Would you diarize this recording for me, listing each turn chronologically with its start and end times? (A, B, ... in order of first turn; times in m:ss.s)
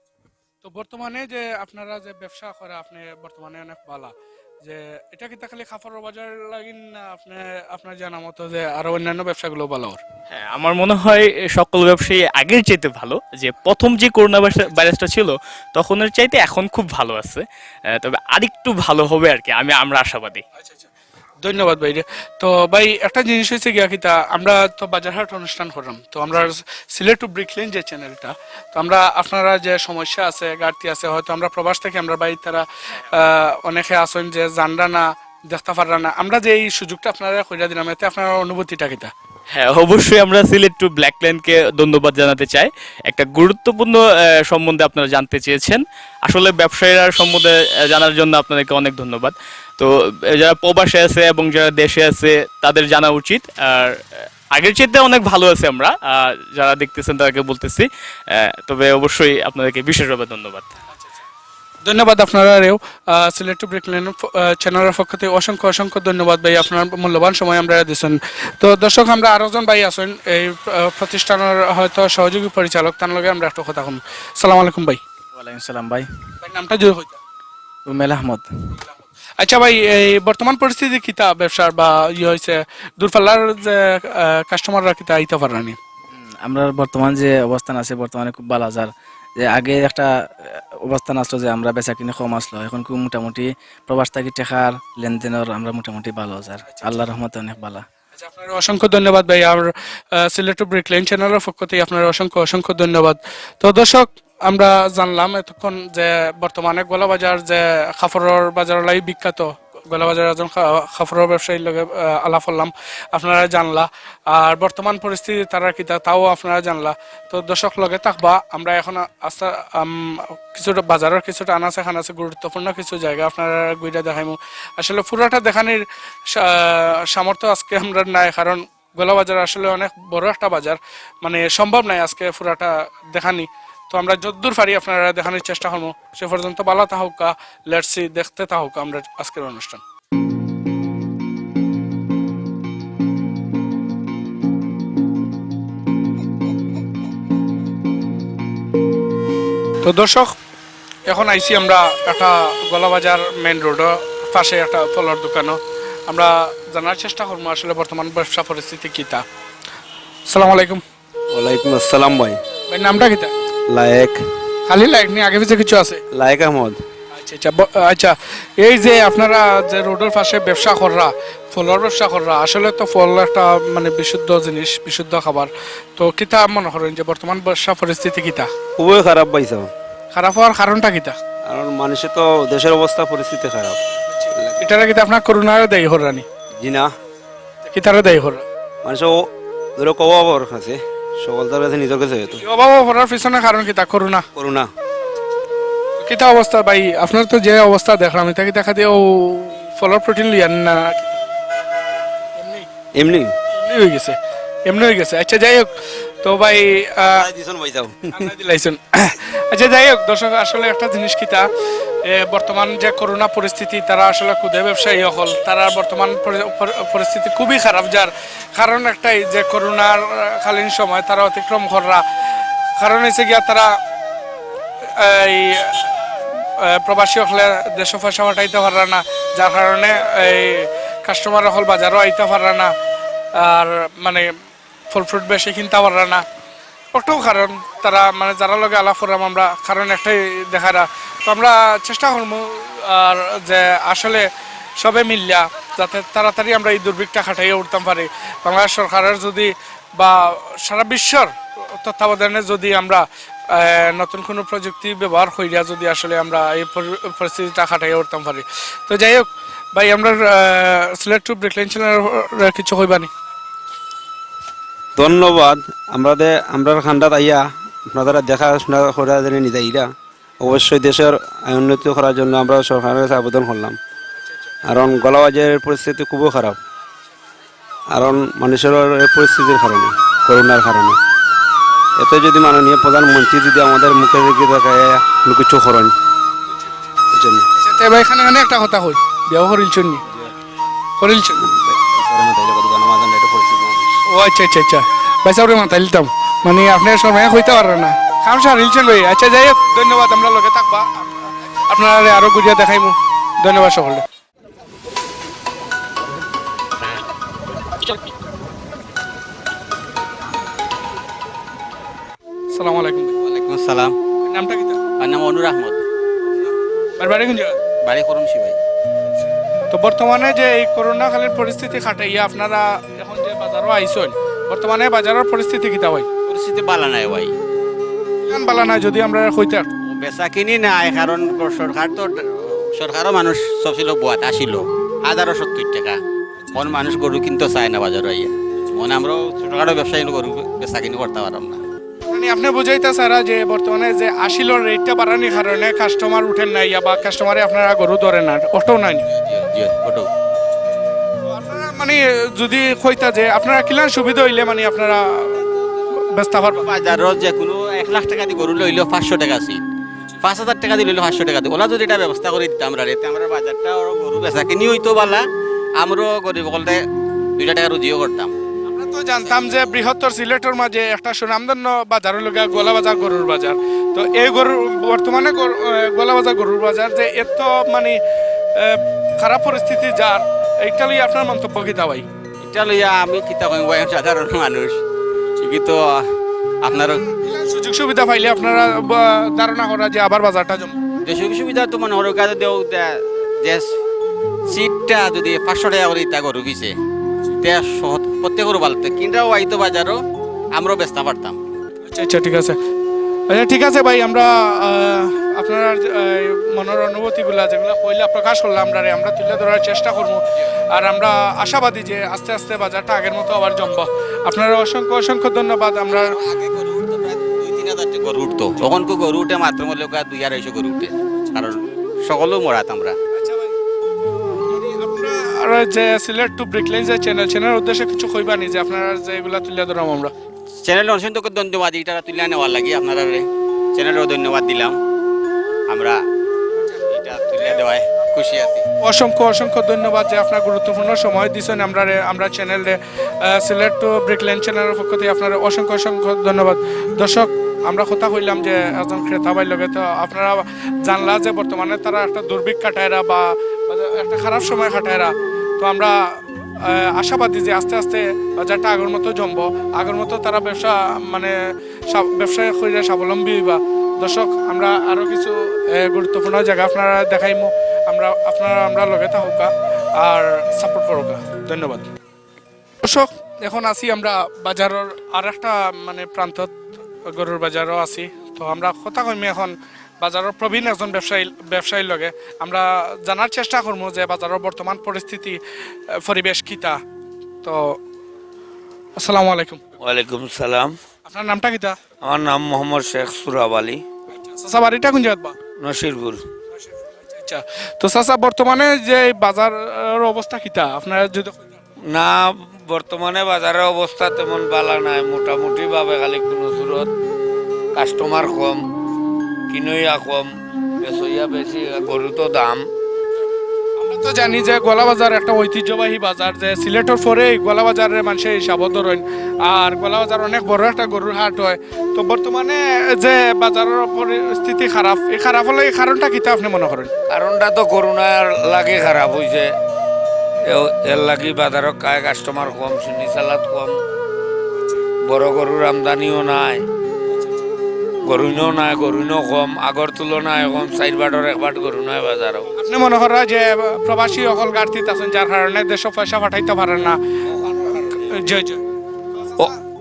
0:00.6-0:10.0 A
0:10.3-0:20.4 B
0:20.6-0:20.9 A
0:21.4-0:39.1 A
0:39.5-1:00.7 B
1:01.8-1:15.0 A
1:15.4-1:16.1 C
1:16.4-1:17.2 A
1:17.9-1:18.5 C
1:19.4-1:25.8 A
1:26.2-1:37.8 C
1:36.6-1:37.0 A
1:38.2-2:19.8 A
2:29.8-2:30.3 A
2:31.1-2:39.2 A
2:40.3-2:40.8 A
2:41.3-2:42.4 D
2:42.7-2:43.3 A
2:43.7-2:44.2 D
2:44.7-2:46.0 A
2:46.1-2:46.8 D
2:47.1-2:58.5 A
2:58.8-2:59.7 D
3:00.1-3:01.2 A
3:01.5-3:03.8 D
3:04.1-3:06.3 A
3:04.4-3:04.6 D
3:06.6-3:06.9 D
3:07.7-3:08.5 A
3:08.8-3:09.3 D
3:09.8-3:12.4 D
3:12.3-3:14.3 A
3:14.4-3:14.7 D
3:16.0-3:21.2 A
3:22.4-3:22.7 A
3:23.0-3:23.4 D
3:23.5-3:27.2 A
3:27.0-3:28.3 D
3:28.1-3:31.5 A
3:32.0-3:42.0 A
3:42.8-3:43.8 A
3:45.0-3:45.9 A
3:46.6-3:52.7 A
3:53.4-3:54.3 A
3:54.9-3:56.2 A
3:56.9-4:04.3 A
4:04.8-4:23.1 A
4:25.0-4:29.9 D
4:30.4-4:33.8 D
4:34.7-4:36.6 D
4:37.9-4:41.0 D
4:42.0-4:45.9 D
4:47.1-4:47.5 D
4:47.6-4:50.0 A
4:51.0-4:51.4 A
4:51.4-4:53.9 D
4:54.1-5:04.0 A
5:12.5-5:13.2 A
5:13.2-5:14.0 E
5:14.2-5:14.8 A
5:15.0-5:15.8 E
5:17.0-5:17.6 A
5:17.8-5:18.6 E
5:19.7-5:26.1 A
5:26.3-5:27.3 E
5:28.3-5:29.7 A
5:29.9-5:36.0 E
5:36.5-5:41.6 E
5:42.1-5:49.0 A
5:49.1-5:50.1 E
5:51.2-5:55.4 A
5:55.9-5:56.7 A
5:56.4-5:59.6 E
6:00.2-6:05.2 E
6:05.8-6:06.8 E
6:07.4-6:08.3 E
6:08.7-6:18.0 A
6:18.6-6:22.1 A
6:22.4-6:24.8 E
6:25.4-6:26.1 E
6:26.6-6:27.0 E
6:26.7-6:30.8 A
6:31.1-6:33.7 E
6:34.5-6:36.7 E
6:37.4-6:40.0 E
6:40.6-6:41.4 E
6:41.8-6:42.6 A
6:43.3-6:56.2 A
6:55.9-7:03.0 E
7:03.1-7:03.6 A
7:04.3-7:10.1 A
7:10.6-7:14.8 E
7:15.7-7:16.0 E
7:16.9-7:18.7 E
7:18.8-7:41.4 A
7:41.9-7:51.9 A
7:52.8-8:05.4 A
8:05.9-8:06.8 A
8:07.4-8:07.8 A
8:09.0-8:09.7 A
8:09.8-8:10.8 F
8:11.1-8:11.8 A
8:12.0-8:13.8 F
8:14.1-8:15.4 A
8:15.6-8:16.2 F
8:16.5-8:21.6 A
8:21.9-8:26.9 F
8:27.8-8:28.6 F
8:29.5-8:30.3 F
8:30.8-8:32.6 F
8:33.8-8:46.9 A
8:47.1-8:49.5 F
8:50.5-8:53.8 F
8:55.1-8:56.6 F
8:58.0-9:02.5 F
9:02.5-9:09.6 A